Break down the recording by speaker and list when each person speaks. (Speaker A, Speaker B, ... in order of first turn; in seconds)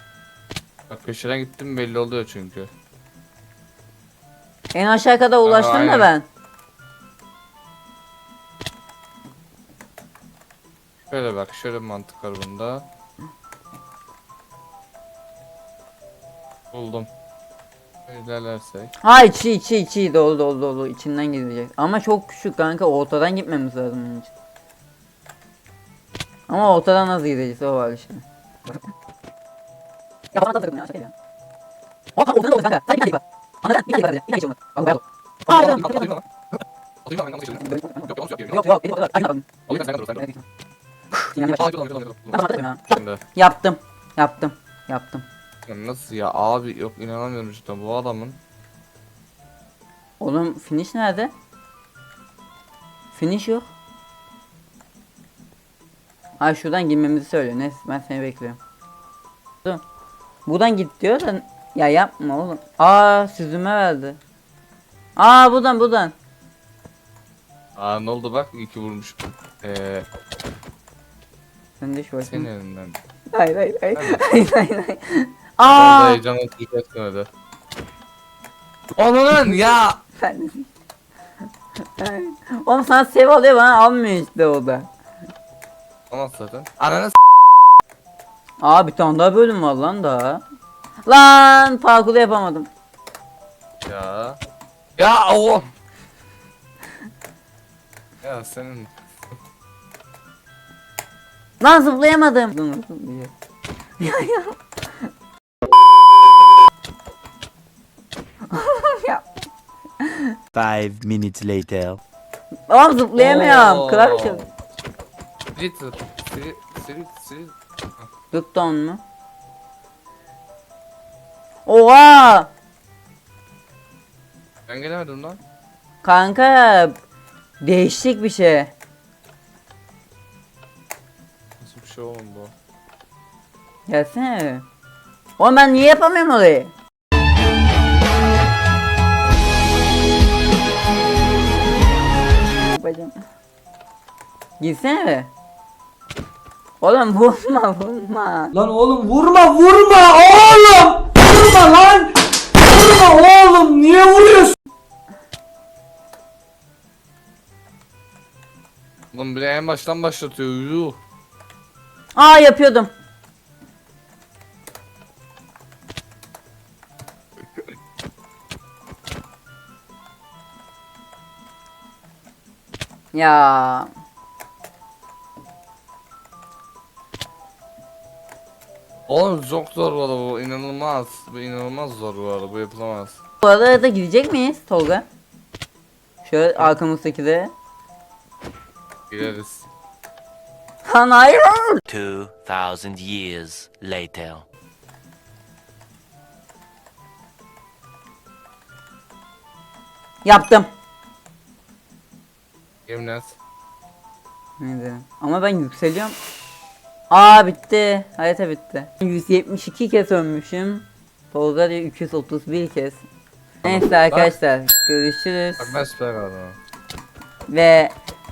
Speaker A: 0.9-2.7, 5.5-6.1, 11.0-12.9, 16.7-17.1, 18.1-18.9, 35.5-36.2, 37.0-38.7, 39.7-40.2, 41.4-43.2, 45.7-48.4, 67.8-70.1, 72.3-73.0, 73.9-74.3, 75.6-77.3, 79.0-80.0, 86.1-87.2, 93.9-94.4, 95.0-95.7, 98.2-98.9, 113.2-114.6, 115.5-118.1, 124.7-125.4, 131.6-132.5, 159.1-161.0, 179.1-183.2, 189.1-189.7, 202.9-203.4, 213.6-214.3, 215.6-216.6
Speaker B: 4.7-6.3, 19.0-24.3, 26.5-28.2, 30.3-31.1, 32.2-36.2, 37.6-40.4, 41.1-41.6, 42.3-42.8, 43.4-45.2, 50.2-51.3, 53.1-53.7, 56.4-58.6, 60.5-64.2, 65.2-66.1, 71.8-72.5, 73.3-76.2, 80.2-80.7, 82.0-84.9, 88.6-90.4, 91.1-92.7, 101.6-103.3, 104.0-105.1, 108.5-109.3, 110.0-110.3, 112.7-114.4, 118.3-119.0, 121.7-122.5, 126.0-126.9, 127.6-128.7, 133.9-134.7, 135.4-136.7, 142.6-143.1, 144.6-145.3, 146.8-148.5, 162.2-162.9, 173.1-173.9, 183.4-185.1, 186.2-187.5, 190.8-191.8, 200.2-200.7, 204.6-206.2, 207.1-213.0, 213.6-215.8, 217.5-217.9
Speaker C: 110.5-112.0, 191.9-194.4
Speaker D: 148.5-154.5